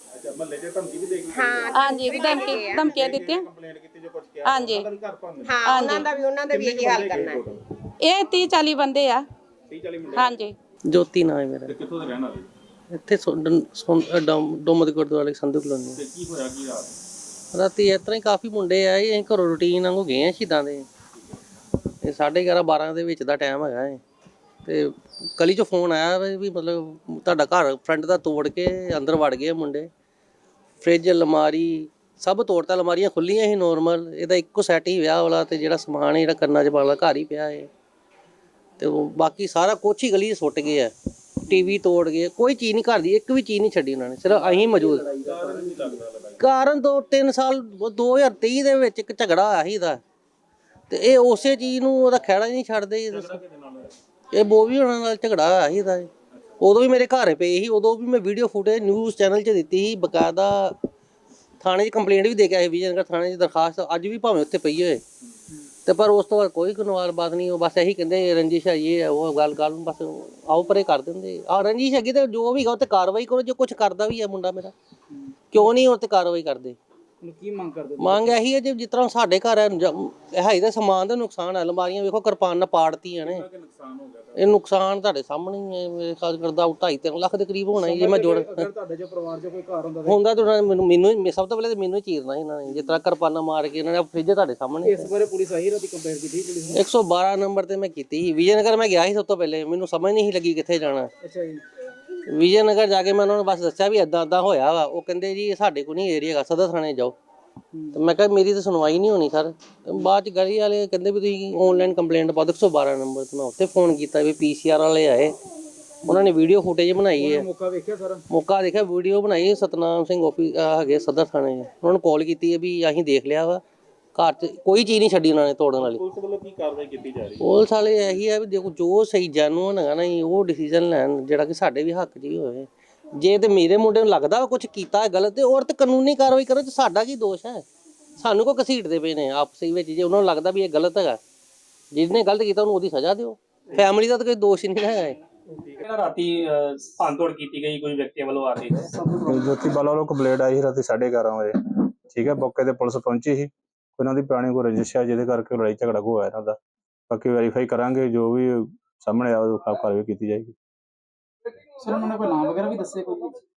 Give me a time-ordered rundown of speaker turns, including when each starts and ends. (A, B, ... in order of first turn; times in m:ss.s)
0:00.2-0:05.7 A
0:01.3-0:02.9 B
0:01.7-0:03.5 C
0:04.4-0:04.9 C
0:05.4-0:07.4 B
0:05.6-0:06.1 C
0:06.5-0:07.6 A
0:08.0-0:09.2 C
0:09.7-0:10.3 A
0:10.2-0:10.6 C
0:10.9-0:11.8 D
0:11.7-0:12.5 A
0:12.9-0:16.0 D
0:16.0-0:17.0 A
0:17.5-0:20.9 D
0:22.0-0:24.0 D
0:24.6-0:29.9 D
0:30.8-0:37.7 D
0:38.8-0:40.9 D
0:41.5-0:45.1 D
0:44.4-0:46.0 E
0:45.2-0:46.4 A
0:46.4-0:50.0 D
0:50.9-0:53.4 D
0:53.2-0:54.0 A
0:54.3-1:00.8 D
1:01.6-1:05.0 D
1:05.9-1:14.7 D
1:15.1-1:15.7 E
1:15.5-1:16.8 D
1:17.2-1:18.4 E
1:18.0-1:23.4 D
1:23.2-1:24.5 A
1:24.4-1:28.7 D
1:27.8-1:30.2 E
1:30.0-1:35.1 D
1:34.8-1:36.8 E
1:36.7-1:41.1 D
1:41.2-1:41.6 E
1:42.3-1:47.2 D
1:47.7-1:48.0 E
1:47.9-1:55.4 D
1:56.1-1:57.5 D
1:57.2-1:58.2 E
1:58.3-2:03.6 D
2:04.2-2:06.0 D
2:05.8-2:07.5 A
2:07.4-2:17.6 D
2:18.2-2:21.2 D
2:21.9-2:25.2 D
2:25.8-2:28.9 F
2:28.9-2:29.7 E
2:29.2-2:36.6 G
2:37.1-2:40.6 G
2:41.8-2:43.4 E